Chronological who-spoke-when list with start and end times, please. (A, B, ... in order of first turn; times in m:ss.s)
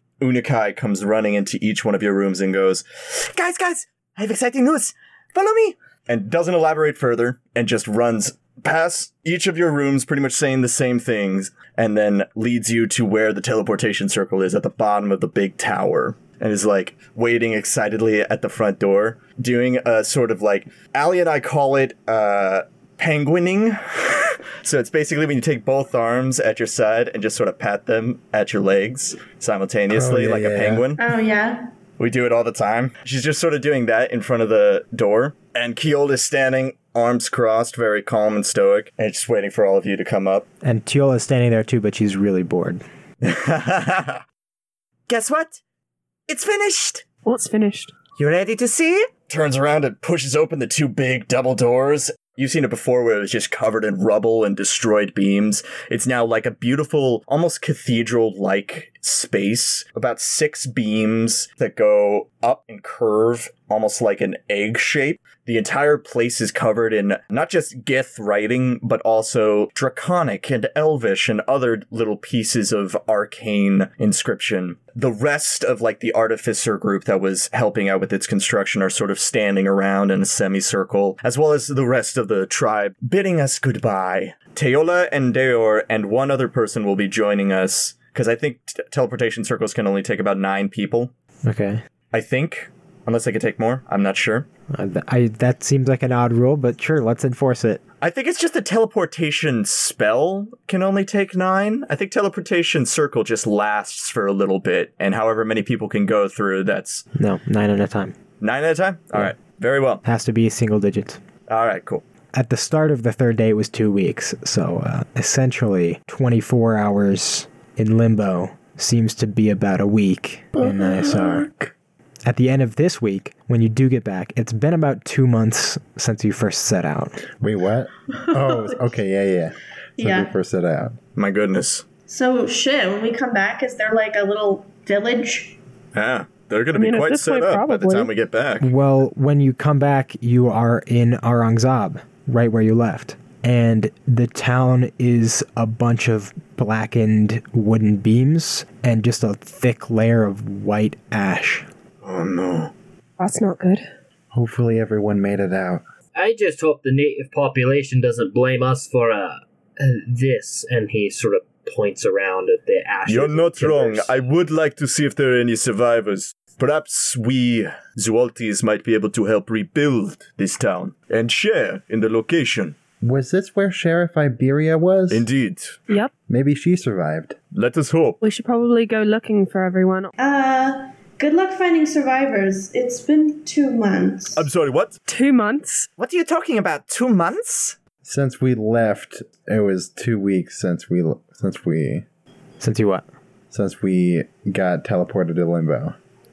0:00.2-0:31.0 A
0:29.9-0:30.9 B
0:31.0-0:31.7 C
0:32.0-0:40.4 A
0:40.6-0:42.8 D
0:43.2-0:44.2 A
0:45.1-0:45.6 A
0:46.3-0:47.0 A
0:47.2-0:47.9 E
0:48.1-1:31.1 A
1:31.4-1:31.8 D
1:32.1-1:34.4 A
1:34.7-1:37.8 D
1:38.0-1:47.0 A
1:47.1-1:48.2 D
1:48.4-1:50.0 A
1:50.0-1:51.2 D
1:51.5-1:52.0 A
1:52.3-2:01.5 D
2:00.6-2:01.6 B
2:02.2-2:07.2 D
2:07.4-2:11.0 B
2:08.2-2:08.8 C
2:10.0-2:10.3 C
2:11.1-2:11.8 A
2:12.1-2:15.6 C
2:15.9-2:18.7 A
2:16.7-2:18.1 E
2:18.6-2:31.7 D
2:32.0-2:32.7 A
2:33.2-2:33.9 E
2:34.3-2:35.8 B
2:36.1-2:44.1 F
2:43.0-2:52.7 A
2:53.0-2:55.3 B
2:55.1-2:55.8 A
2:56.3-2:57.4 B
2:57.5-2:58.2 A
2:58.2-3:00.1 E
3:00.2-3:04.5 C
3:04.3-3:05.0 A
3:05.1-3:05.9 E
3:06.0-3:07.8 A
3:08.0-3:12.0 B
3:12.6-3:13.1 D
3:13.5-3:15.9 B